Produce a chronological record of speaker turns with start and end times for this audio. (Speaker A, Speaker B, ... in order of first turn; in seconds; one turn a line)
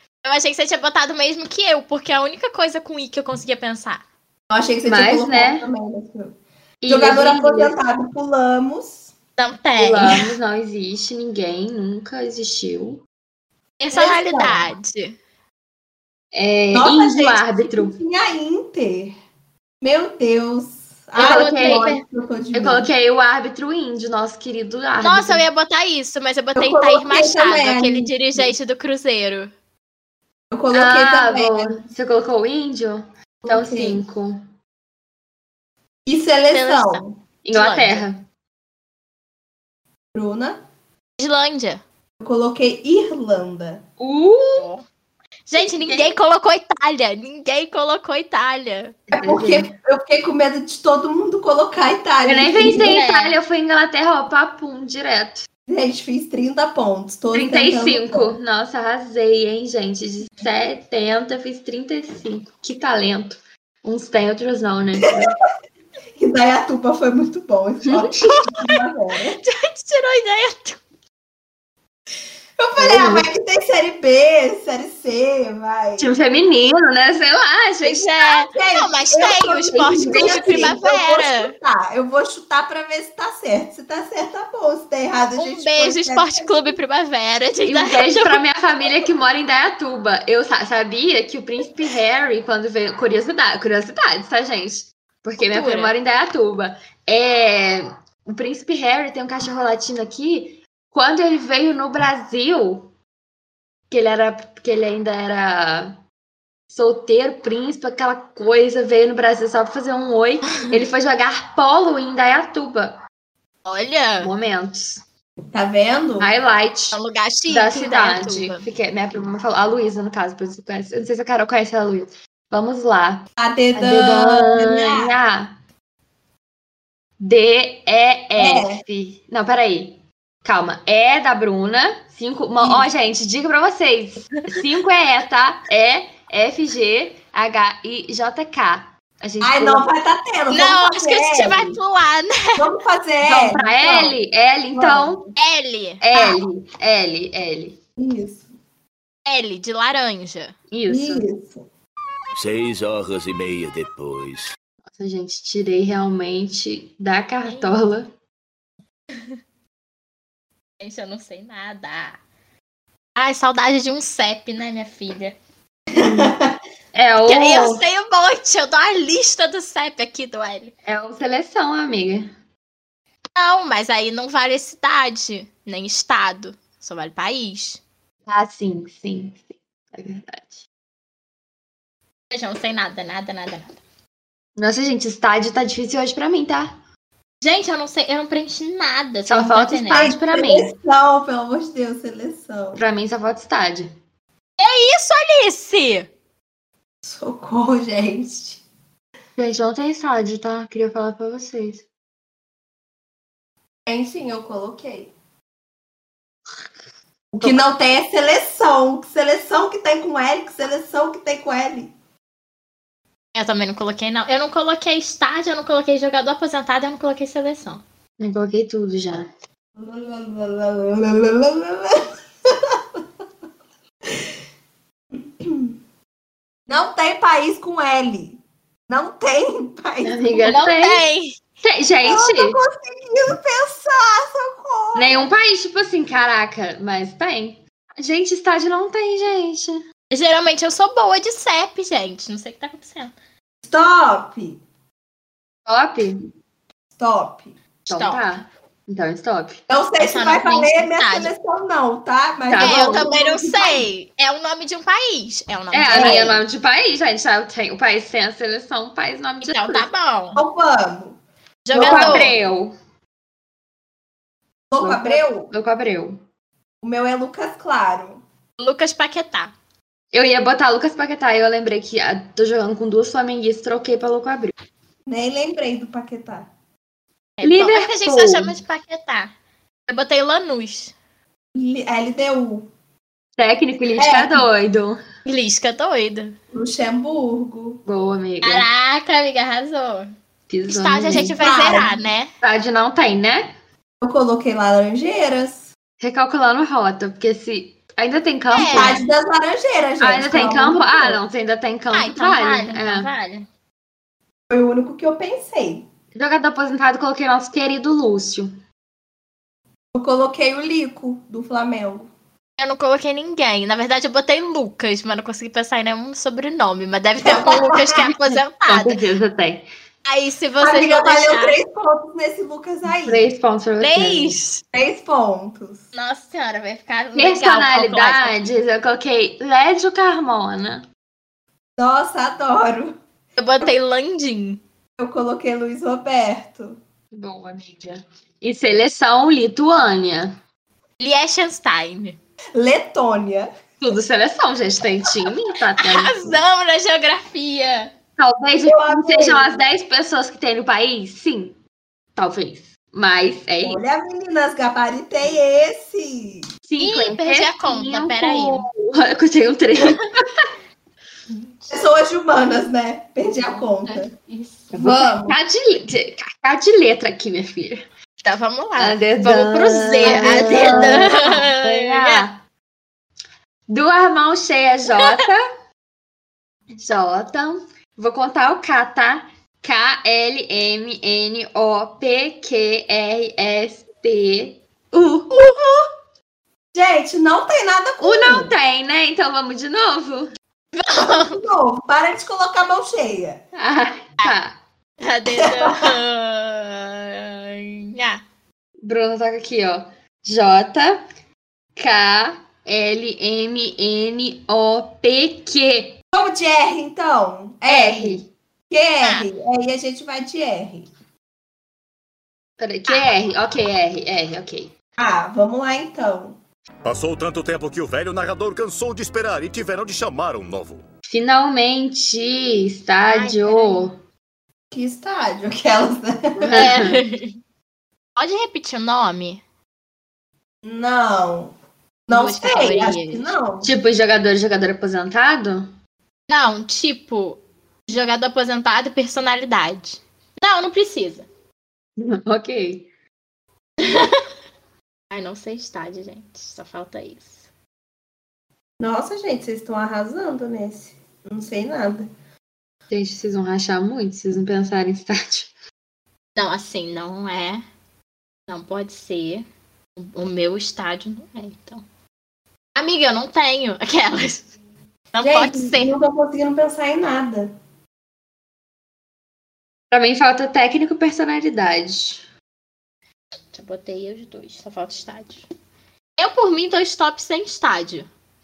Speaker A: 0.2-4.0
Speaker B: 4.5-6.3
Speaker C: 4.9-5.7
Speaker C: 6.8-7.7
Speaker B: 6.9-9.1
Speaker A: 9.4-10.3
Speaker C: 9.8-13.0
Speaker A: 13.8-15.2
Speaker B: 13.9-14.7
Speaker C: 16.3-17.9
Speaker B: 16.7-19.1
Speaker B: 19.8-22.9
Speaker C: 21.2-21.9
Speaker A: 21.2-22.0
Speaker C: 22.5-25.4
Speaker A: 25.0-29.5
Speaker B: 26.6-28.1
Speaker B: 30.5-31.8
Speaker C: 30.7-34.4
Speaker B: 33.4-34.0
Speaker B: 36.0-37.1
Speaker A: 36.5-38.0
Speaker C: 37.4-38.2
Speaker B: 40.1-40.6
Speaker A: 41.2-41.8
Speaker B: 42.2-43.8
Speaker C: 44.0-44.7
Speaker A: 44.6-44.8
Speaker A: 45.5-49.1
Speaker C: 45.5-46.1
Speaker B: 49.1-53.0
Speaker C: 49.1-49.7
Speaker C: 52.2-55.5
Speaker A: 52.6-53.4
Speaker B: 55.7-58.3
Speaker C: 57.3-65.4
Speaker B: 66.2-69.4
Speaker A: 68.2-68.7
Speaker A: 69.4-70.8
Speaker B: 72.6-76.1
Speaker C: 72.8-73.3
Speaker C: 76.0-78.1
Speaker A: 77.8-81.5
Speaker B: 78.5-86.7
Speaker C: 79.7-80.8
Speaker A: 85.4-88.4
Speaker C: 87.6-102.9
Speaker A: 95.4-95.9
Speaker C: 103.9-106.0
Speaker C: 106.7-113.0
Speaker A: 113.6-114.3
Speaker C: 114.2-115.0
Speaker B: 115.5-116.3
Speaker C: 116.2-125.6
Speaker A: 116.9-118.6
Speaker B: 123.4-125.1
Speaker C: 127.2-139.9
Speaker B: 128.4-128.8
Speaker B: 132.6-132.9
Speaker B: 139.4-141.7
Speaker A: 140.5-142.7
Speaker B: 142.6-144.2
Speaker C: 143.2-145.3
Speaker B: 144.7-145.3
Speaker A: 145.3-146.3
Speaker C: 146.0-147.8
Speaker B: 148.0-148.4
Speaker A: 149.2-150.5
Speaker C: 150.7-151.3
Speaker B: 150.9-151.7
Speaker D: 152.4-154.5
Speaker C: 154.9-158.1
Speaker A: 157.4-157.7
Speaker A: 160.8-162.2
Speaker A: 163.2-165.3
Speaker C: 165.9-166.3
Speaker B: 165.9-166.5
Speaker C: 166.9-167.8
Speaker A: 167.2-170.7
Speaker C: 170.8-172.3
Speaker A: 173.3-177.8
Speaker C: 178.3-180.6
Speaker A: 182.3-183.8
Speaker C: 184.6-186.8
Speaker A: 187.4-190.1
Speaker C: 189.3-190.7
Speaker B: 189.9-192.8
Speaker C: 192.8-193.9
Speaker A: 194.6-196.1
Speaker B: 197.0-198.6
Speaker C: 199.4-201.8
Speaker B: 203.8-205.1
Speaker B: 207.3-211.9
Speaker A: 213.3-217.8
Speaker C: 218.2-219.3
Speaker B: 219.8-223.0
Speaker B: 225.1-225.8
Speaker B: 226.7-230.5
Speaker C: 230.0-231.1
Speaker A: 230.4-231.4
Speaker C: 231.6-232.6
Speaker B: 232.0-235.3
Speaker C: 234.9-239.8
Speaker A: 240.1-243.1
Speaker B: 243.6-244.6
Speaker C: 245.7-246.2
Speaker B: 246.9-247.6
Speaker C: 247.9-249.6
Speaker A: 247.9-248.2
Speaker B: 249.7-253.9
Speaker A: 250.0-251.3
Speaker C: 252.4-253.1
Speaker A: 252.6-256.4
Speaker C: 255.7-259.9
Speaker B: 255.9-256.4
Speaker A: 259.4-260.4
Speaker B: 260.4-261.2
Speaker A: 261.6-262.3
Speaker B: 261.7-262.4
Speaker C: 261.7-262.7
Speaker B: 264.7-265.5
Speaker C: 264.8-266.2
Speaker B: 266.8-268.2
Speaker A: 268.6-269.5
Speaker C: 270.1-274.5
Speaker B: 275.1-276.5
Speaker A: 277.4-279.3
Speaker C: 277.4-278.6
Speaker A: 279.9-280.9
Speaker B: 281.5-282.7
Speaker C: 283.4-285.0
Speaker B: 283.9-284.5
Speaker A: 285.2-286.3
Speaker B: 286.5-287.8
Speaker C: 287.9-288.7
Speaker A: 288.4-290.1
Speaker C: 290.5-291.4
Speaker A: 290.7-292.3
Speaker B: 291.1-291.9
Speaker C: 292.4-293.6
Speaker B: 294.0-295.7
Speaker C: 296.0-299.0
Speaker A: 298.5-299.1
Speaker B: 298.7-301.2
Speaker C: 300.0-303.1
Speaker A: 301.9-303.5
Speaker B: 304.5-305.8
Speaker C: 306.1-308.6
Speaker B: 309.9-312.1
Speaker A: 312.6-319.0
Speaker B: 317.2-318.2
Speaker C: 318.7-319.7
Speaker A: 320.0-321.6
Speaker B: 320.6-323.3
Speaker C: 322.9-324.3
Speaker A: 323.8-324.6
Speaker B: 324.7-325.8
Speaker A: 325.9-328.5
Speaker C: 327.1-330.9
Speaker B: 331.8-332.9
Speaker A: 333.4-334.6
Speaker B: 335.0-336.8
Speaker C: 337.1-340.4
Speaker A: 341.0-342.2
Speaker B: 342.5-343.5
Speaker C: 343.8-346.4
Speaker A: 345.8-347.9
Speaker C: 348.2-351.6
Speaker B: 348.6-349.6
Speaker C: 352.1-353.8
Speaker B: 353.6-356.5
Speaker C: 356.6-360.3
Speaker A: 356.8-358.7
Speaker B: 361.7-364.1
Speaker A: 363.8-364.7
Speaker C: 364.7-367.8
Speaker B: 364.7-365.4
Speaker A: 368.2-372.2
Speaker C: 368.8-372.4
Speaker B: 370.0-371.1
Speaker C: 373.7-375.4
Speaker C: 376.7-385.4
Speaker A: 385.3-385.9
Speaker B: 386.7-388.5
Speaker C: 388.0-390.3
Speaker A: 390.7-391.4
Speaker B: 391.0-393.4
Speaker C: 393.5-394.6
Speaker A: 395.0-398.2
Speaker B: 395.3-396.0
Speaker C: 398.8-401.0
Speaker C: 401.8-406.0
Speaker B: 406.1-410.9
Speaker C: 407.7-408.3
Speaker A: 409.0-409.3
Speaker C: 412.6-414.7
Speaker B: 415.0-416.4
Speaker E: 416.9-420.8
Speaker C: 421.1-424.0
Speaker A: 423.1-423.9
Speaker B: 424.7-426.6
Speaker C: 426.4-427.0
Speaker A: 426.5-427.4
Speaker A: 428.1-429.4
Speaker B: 430.6-431.5
Speaker B: 432.1-433.7
Speaker A: 432.1-433.3
Speaker C: 433.6-435.7
Speaker A: 436.3-441.3
Speaker C: 442.0-442.9
Speaker A: 443.8-444.2
Speaker A: 445.1-447.4
Speaker B: 448.8-452.1
Speaker C: 452.9-455.5
Speaker A: 456.4-457.6
Speaker A: 458.5-459.4
Speaker A: 460.0-461.8
Speaker A: 462.7-464.5
Speaker A: 465.1-465.9
Speaker B: 465.2-467.5
Speaker C: 469.9-472.2
Speaker A: 473.5-475.4
Speaker A: 476.2-478.1